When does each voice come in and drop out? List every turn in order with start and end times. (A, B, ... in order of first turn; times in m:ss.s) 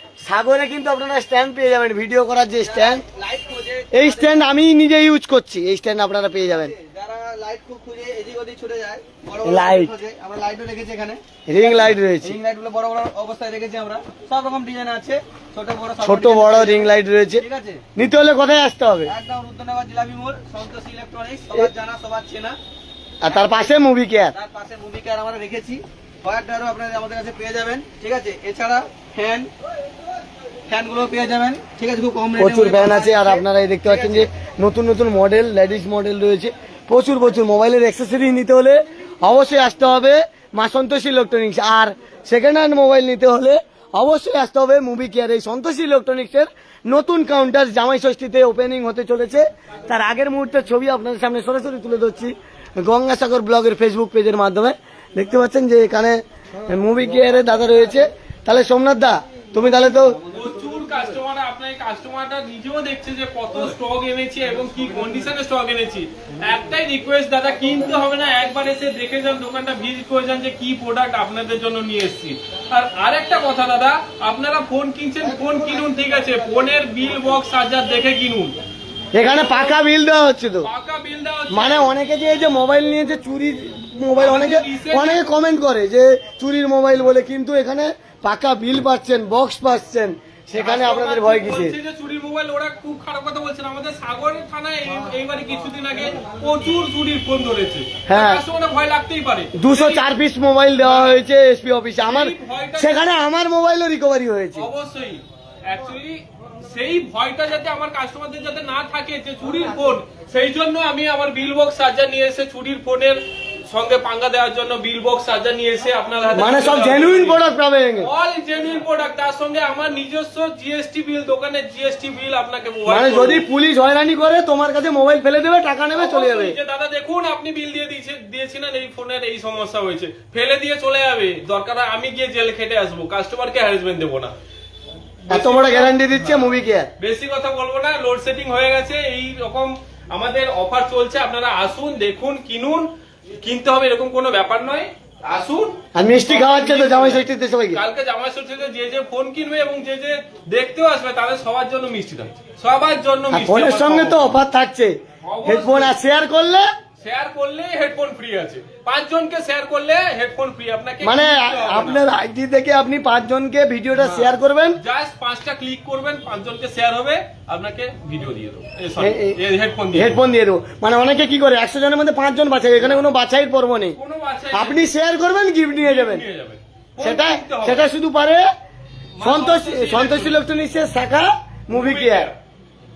0:00.2-0:03.0 A
0:02.6-0:04.4 B
0:03.9-0:06.7 A
0:06.4-0:17.8 B
0:09.4-0:09.9 A
0:11.5-0:12.4 A
0:16.0-0:17.4 A
0:18.0-0:19.1 A
0:19.0-0:22.6 B
0:23.2-0:24.3 A
0:24.3-0:29.5 B
0:30.7-0:34.3 B
0:32.4-1:00.2 A
1:00.3-1:18.5 C
1:15.2-1:17.3 B
1:19.1-1:20.7 A
1:20.6-1:21.9 C
1:21.5-1:31.8 A
1:24.2-1:25.2 C
1:30.5-1:40.0 C
1:38.1-1:38.4 A
1:39.6-1:44.7 A
1:40.8-1:41.2 C
1:42.0-1:43.0 C
1:44.5-1:57.4 C
1:56.3-1:58.1 A
1:58.0-2:03.4 C
2:02.8-2:06.6 A
2:05.9-2:14.3 C
2:15.2-2:16.4 C
2:15.3-2:16.9 A
2:17.0-2:22.9 C
2:23.4-2:34.3 C
2:25.9-2:27.8 A
2:33.3-2:34.9 A
2:35.2-2:35.9 C
2:35.4-2:36.7 A
2:37.0-2:42.0 C
2:41.0-2:44.8 A
2:44.0-2:50.2 C
2:49.0-2:49.4 A
2:49.9-2:54.0 A
2:54.0-2:54.8 C
2:54.5-2:56.2 A
2:55.8-2:57.9 C
2:57.0-2:58.4 A
2:59.2-3:00.4 C
2:59.2-3:02.3 A
3:01.7-3:02.4 C